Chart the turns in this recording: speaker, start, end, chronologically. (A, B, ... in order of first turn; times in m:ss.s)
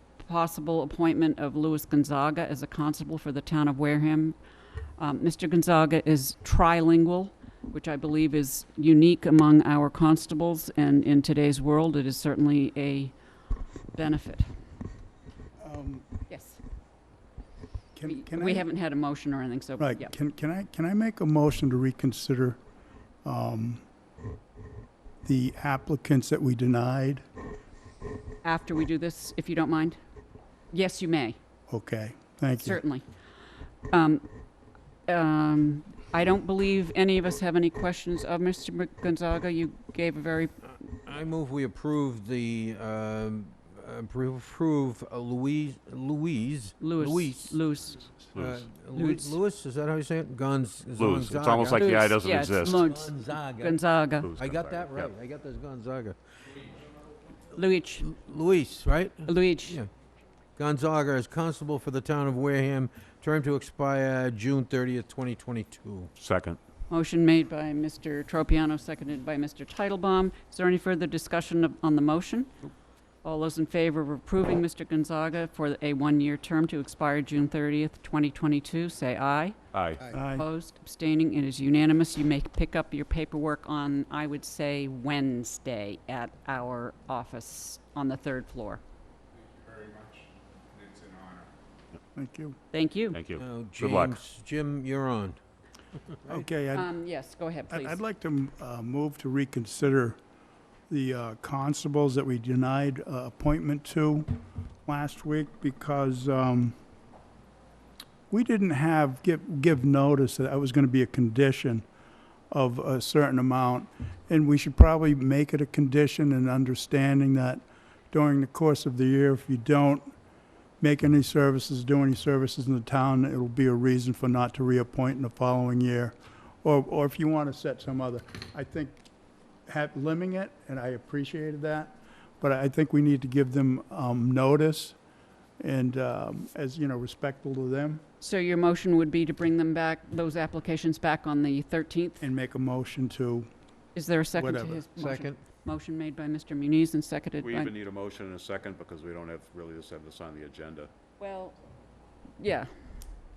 0:00.2-0:04.4 A
0:05.0-0:13.1 A
0:13.9-0:14.5 A
0:15.6-0:16.0 B
0:16.3-0:16.6 A
0:17.9-0:18.7 B
0:18.0-0:20.1 A
0:19.8-0:22.6 B
0:23.2-0:23.8 B
0:25.2-0:27.2 B
0:28.4-0:30.0 A
0:30.7-0:31.4 A
0:31.7-0:32.8 B
0:32.6-0:33.0 A
0:33.9-0:34.3 A
0:35.0-0:40.6 A
0:40.9-0:47.6 C
0:46.8-0:48.1 A
0:48.3-0:56.7 C
0:48.4-0:48.6 D
0:48.9-0:49.3 A
0:50.9-0:52.8 D
0:51.8-0:54.3 A
0:54.2-0:55.1 D
0:57.5-0:58.1 A
0:58.0-0:59.9 C
0:59.2-0:59.8 A
1:00.6-1:06.1 C
1:06.2-1:06.6 D
1:06.9-1:12.5 A
1:13.2-1:19.6 A
1:19.7-1:20.0 D
1:20.1-1:20.4 B
1:20.1-1:28.8 A
1:32.1-1:32.6 B
1:32.7-1:33.2 A
1:33.1-1:34.2 D
1:33.4-1:35.4 C
1:36.0-1:36.4 C
1:36.3-1:36.9 B
1:36.7-1:38.0 A
1:37.7-1:40.2 B
1:40.9-1:44.3 B
1:44.8-1:46.8 B
1:48.3-1:51.8 B
1:52.5-2:00.1 B
2:00.8-2:09.0 B
2:09.7-2:15.0 B
2:15.6-2:18.0 B
2:18.2-2:22.2 A
2:22.2-2:23.5 B
2:23.9-2:27.7 A
2:24.3-2:24.9 B
2:25.0-2:25.4 C
2:27.4-2:30.9 D
2:31.2-2:31.6 A
2:32.4-2:32.9 A